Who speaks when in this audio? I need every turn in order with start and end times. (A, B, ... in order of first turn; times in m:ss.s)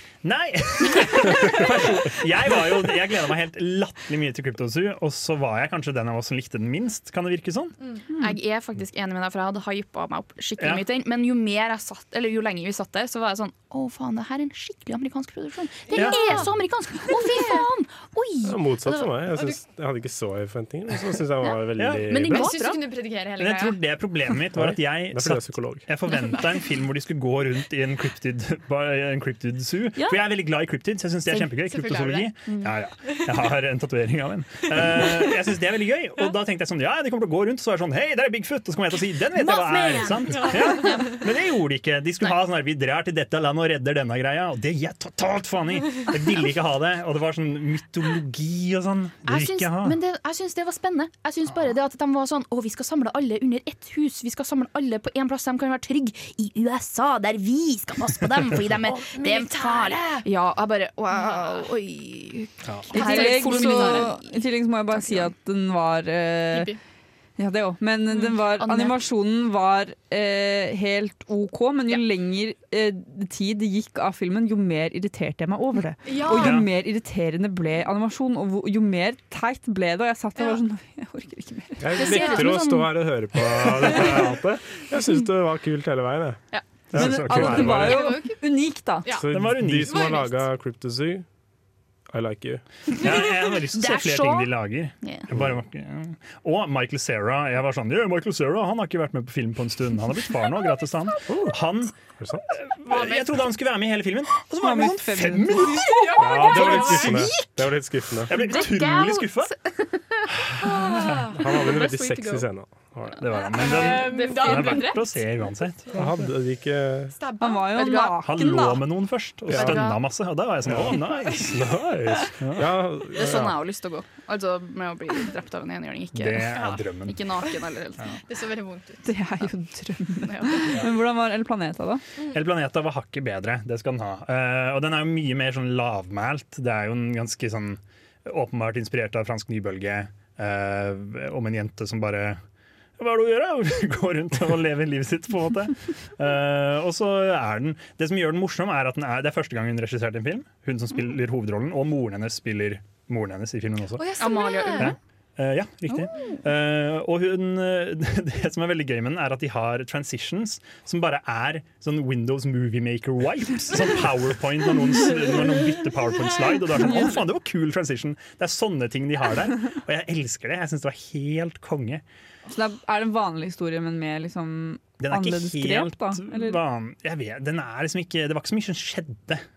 0:00.2-0:07.8 A
0:08.2-0:19.1 B
0:10.6-0:10.8 A
0:15.9-0:16.5 C
0:15.9-0:16.4 A
0:17.1-0:17.6 C
0:18.4-0:22.5 D
0:21.4-0:22.8 B
0:21.8-0:22.1 A
0:22.3-0:23.8 C
0:23.4-0:50.0 A
0:24.5-0:25.8 D
0:26.1-0:26.5 C
0:30.0-0:30.2 B
0:31.6-0:32.3 C
0:32.5-0:32.7 B
0:39.4-0:41.2 B
0:40.3-0:41.1 C
0:49.2-1:04.2 B
0:58.8-1:00.3 C
1:01.1-1:01.6 C
1:02.9-1:06.7 E
1:03.0-1:04.1 C
1:07.4-1:22.0 E
1:08.5-1:09.0 B
1:16.0-1:16.6 C
1:16.3-1:16.7 A
1:21.8-1:26.4 D
1:22.0-1:22.9 B
1:22.0-1:22.5 C
1:23.8-1:24.4 A
1:26.9-1:28.0 D
1:26.9-1:27.9 A
1:26.9-1:29.2 E
1:27.8-1:28.4 C
1:29.2-1:31.3 D
1:29.3-1:30.0 A
1:29.8-1:30.4 C
1:32.1-1:32.6 D
1:32.9-1:41.9 A
1:33.0-1:35.3 B
1:41.3-1:41.6 D
1:42.2-1:42.4 D
1:42.6-1:46.0 A
1:42.9-1:43.3 B
1:44.6-1:45.9 E
1:45.8-1:47.2 C
1:45.9-1:47.5 B
1:46.2-1:48.3 D
1:46.9-1:47.2 A
1:48.3-1:49.6 A
1:48.3-1:52.4 B
1:51.1-1:51.3 C
1:51.4-1:53.2 D
1:53.2-1:56.3 A
1:53.4-1:55.2 C
1:53.8-1:54.8 B
1:55.9-1:57.1 D
1:57.1-1:57.9 C
1:57.4-1:58.8 E
1:57.7-1:58.8 B
1:58.2-2:01.5 A
1:59.5-1:59.8 D
1:59.5-2:00.0 B
2:00.7-2:03.6 D
2:02.4-2:02.7 A
2:03.2-2:08.1 B
2:06.2-2:07.2 A
2:08.3-2:09.1 C
2:09.0-2:12.0 E
2:10.2-2:10.8 B
2:12.3-2:22.4 A
2:23.0-2:34.1 A
2:34.0-2:35.0 C
2:34.2-2:35.0 B
2:34.7-2:52.0 A
2:35.9-2:36.4 B
2:52.5-2:56.6 E
2:55.0-2:59.4 A